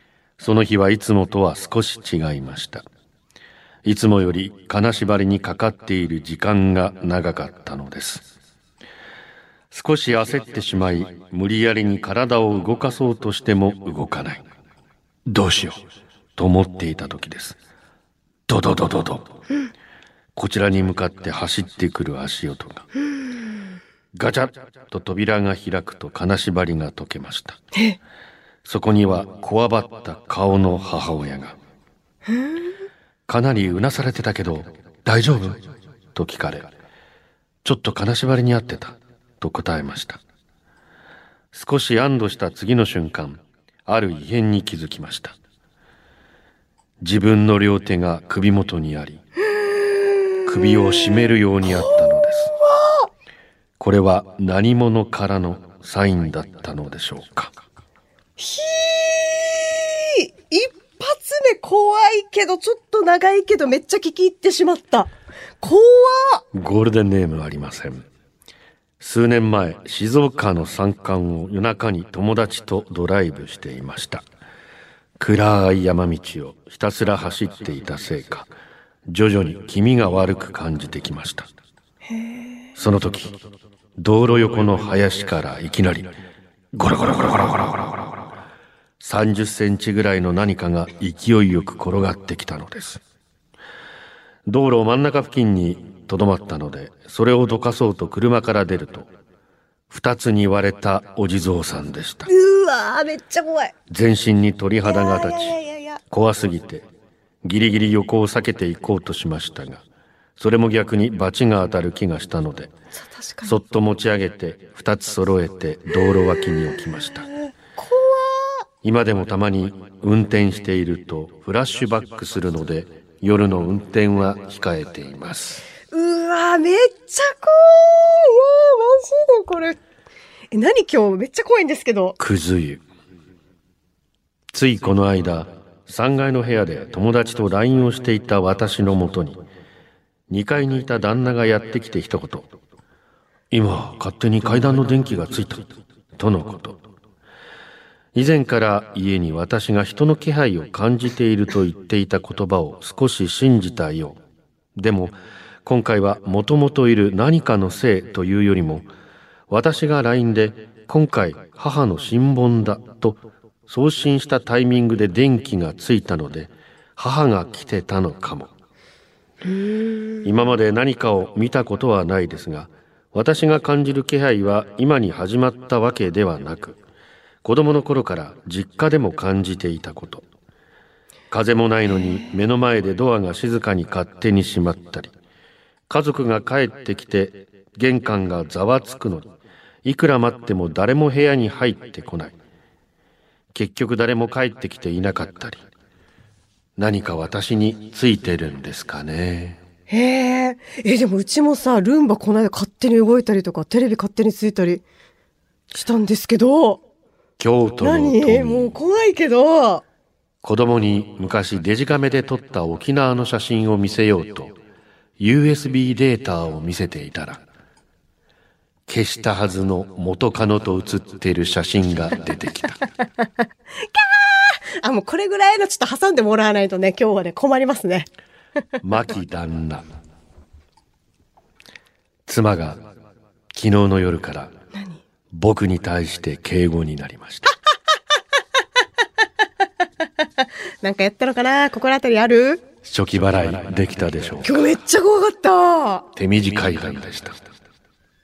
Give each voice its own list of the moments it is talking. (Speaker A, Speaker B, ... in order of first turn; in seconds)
Speaker A: 0.4-2.8, 3.8-8.3, 9.7-14.4, 15.3-15.8, 16.4-17.6, 18.5-19.4, 20.3-22.9, 24.1-27.6, 28.6-31.6, 33.3-35.6, 36.1-36.7, 37.6-40.2, 41.5-45.3, 47.0-49.2, 50.5-52.5, 53.8-57.5, 66.5-68.0, 69.0-74.2, 75.2-78.5, 79.1-81.5, 82.8-83.3, 84.0-86.1, 86.7-88.2, 89.0-93.0, 94.5-99.1, 99.9-102.3, 103.9-105.5, 106.1-106.8, 107.4-109.8, 110.4-112.7, 113.4-117.3, 118.8-125.6, 132.2-132.8, 134.5-139.4, 140.3-142.5, 143.5-146.8, 148.1-154.2, 154.8-158.9, 159.5-168.5, 170.2-176.8, 177.4-180.2, 181.3-185.1, 185.9-189.3, 189.8-192.3, 193.5-195.6, 196.8-199.6, 207.4-208.8, 210.4-214.5, 215.2-217.4, 218.9-222.8, 228.8-229.8, 232.3-232.9, 233.5-234.5, 235.3-237.5, 242.8-244.7, 246.2-247.5
Speaker B: 23.1-23.6, 32.3-32.6, 49.8-53.1, 58.4-66.4, 82.1-82.5, 102.3-103.7, 104.8-106.0, 113.0-113.5, 117.4-118.6, 125.9-129.8, 130.5-132.2, 169.4-170.2, 199.9-204.8, 205.7-206.8, 207.8-209.8, 223.9-228.1, 240.8-242.6, 244.4-246.1